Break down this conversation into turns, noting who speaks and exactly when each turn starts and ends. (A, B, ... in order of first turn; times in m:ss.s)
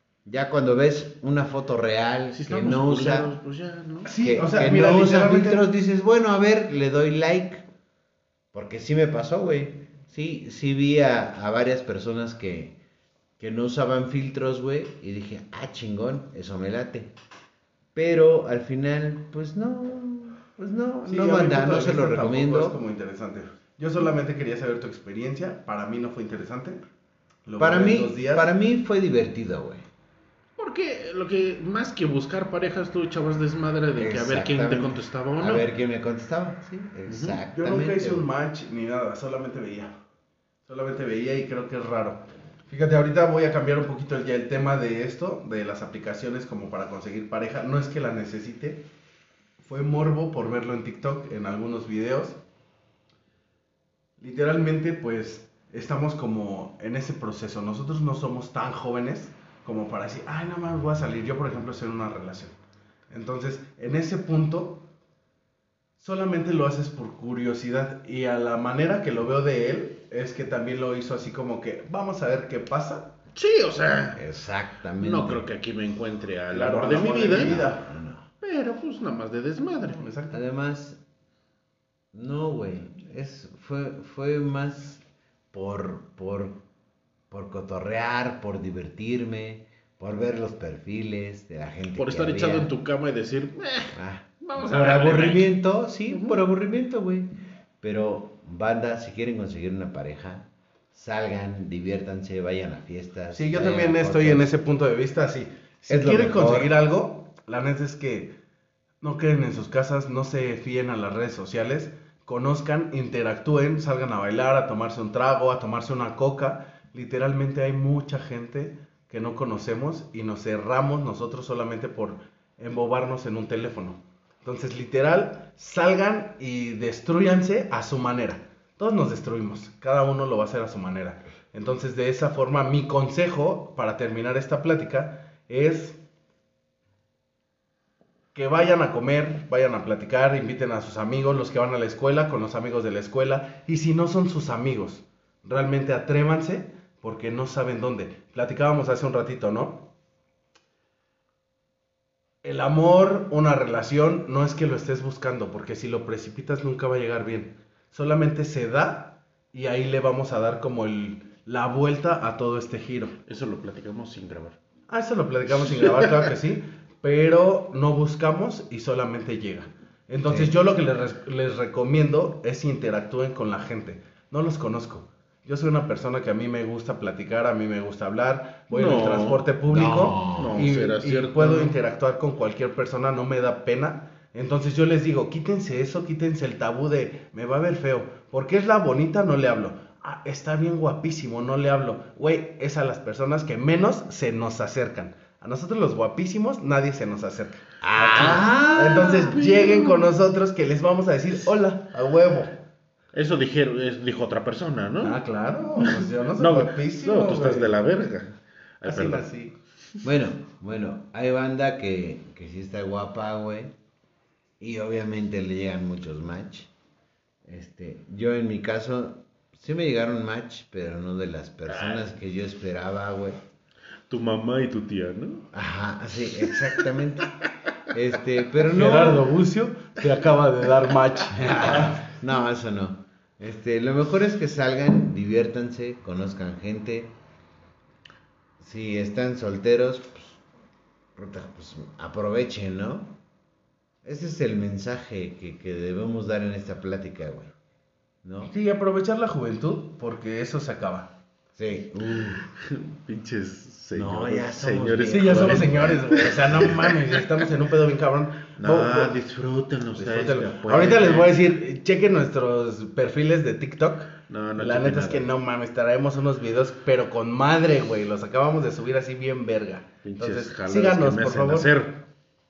0:00.3-0:03.3 A
0:02.3-0:04.1 B
0:04.0-0:05.7 C
0:04.2-0:07.6 A
0:08.5-0:12.8 A
0:13.4-0:17.1 A
0:18.0-0:22.8 A
0:21.0-0:26.8 C
0:27.5-0:28.5 C
0:27.6-0:29.9 A
0:30.6-0:35.7 B
0:34.0-0:38.3 A
0:37.1-0:37.4 B
0:37.5-0:40.0 C
0:40.7-0:48.8 C
0:49.6-0:52.4 C
0:54.2-1:02.6 C
1:03.1-1:04.8 C
1:06.0-1:13.1 C
1:13.4-1:14.3 B
1:14.2-1:15.4 A
1:15.0-1:17.6 B
1:16.5-1:17.8 C
1:17.3-1:18.3 A
1:18.4-1:20.0 B
1:19.8-1:20.4 C
1:20.3-1:21.0 A
1:22.1-1:26.6 A
1:27.3-1:32.7 A
1:32.0-1:35.6 B
1:33.9-1:37.3 A
1:36.1-1:36.4 B
1:37.8-1:44.5 A
1:43.3-1:48.3 C
1:45.9-1:46.7 A
1:49.0-2:16.0 C
2:18.4-2:29.9 C
2:32.4-2:43.2 C
2:43.3-2:44.6 B
2:44.9-3:22.6 C
2:45.6-2:46.3 B
2:50.2-2:50.5 A
2:58.7-2:59.4 B
2:59.7-3:00.7 A
3:00.3-3:01.8 B
3:17.8-3:19.5 A
3:18.2-3:18.4 B
3:19.4-3:19.9 B
3:23.1-3:25.2 B
3:25.0-3:27.7 C
3:25.8-3:29.3 B
3:28.8-3:29.5 C
3:30.0-3:33.7 A
3:34.6-3:36.7 A
3:37.5-3:43.4 A
3:41.7-3:42.1 B
3:44.1-3:45.5 B
3:45.5-3:47.3 A
3:46.5-3:46.8 B
3:47.9-3:49.3 A
3:48.6-3:52.0 C
3:51.4-3:57.1 A
3:58.6-4:00.4 A
4:01.2-4:03.2 A
4:04.0-4:07.5 A
4:08.2-4:08.5 A
4:08.5-4:11.1 C
4:11.6-4:12.4 A
4:12.5-4:17.2 B
4:14.0-4:16.3 A
4:15.1-4:19.1 C
4:18.6-4:21.4 B
4:20.0-4:31.7 C
4:24.3-4:25.3 B
4:30.0-4:32.0 B